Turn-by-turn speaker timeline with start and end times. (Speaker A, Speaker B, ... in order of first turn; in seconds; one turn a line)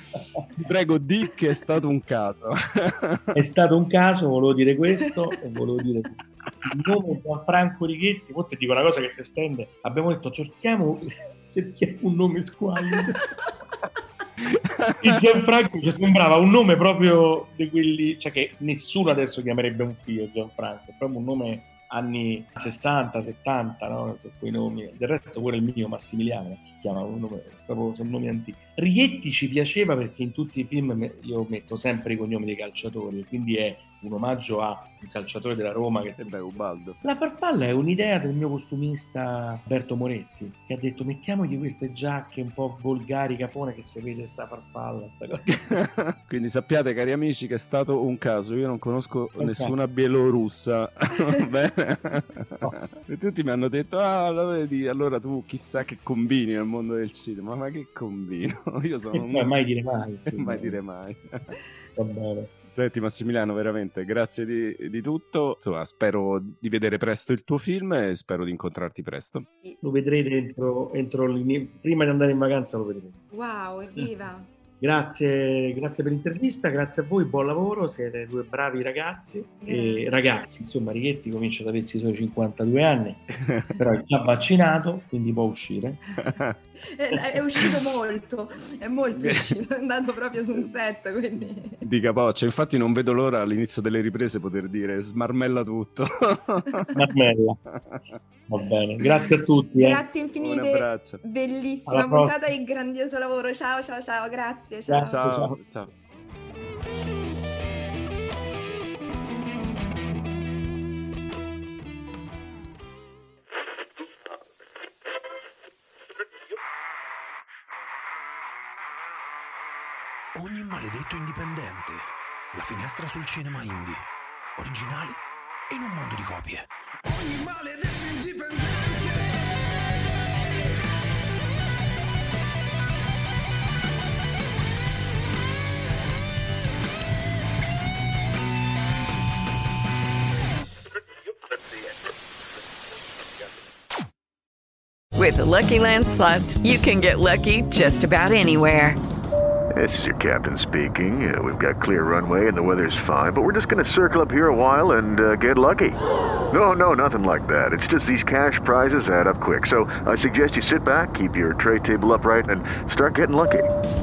Speaker A: 0.6-3.4
Speaker B: 3.3-13.2
Speaker C: 13.0-13.5
Speaker A: 14.4-15.2
Speaker B: 15.0-45.6
Speaker A: 36.2-37.0
Speaker A: 45.5-59.5
Speaker B: 49.4-49.7
Speaker B: 59.1-60.8
Speaker A: 60.3-61.5
Speaker B: 62.0-62.5
Speaker A: 62.7-69.5
Speaker B: 69.8-73.2
Speaker C: 73.3-74.5
Speaker B: 74.8-86.0
Speaker C: 79.6-80.2
Speaker A: 83.5-83.8
Speaker A: 86.2-86.5
Speaker C: 86.9-91.8
Speaker A: 89.2-89.5
Speaker A: 91.8-96.8
Speaker B: 96.9-97.6
Speaker B: 98.5-100.0
Speaker C: 99.8-105.2
Speaker A: 100.3-101.2
Speaker B: 101.9-102.4
Speaker A: 104.9-105.9
Speaker B: 104.9-105.6
Speaker D: 120.3-122.0
Speaker D: 122.5-130.7
Speaker E: 145.1-149.0
Speaker F: 149.7-156.0
Speaker F: 156.5-163.7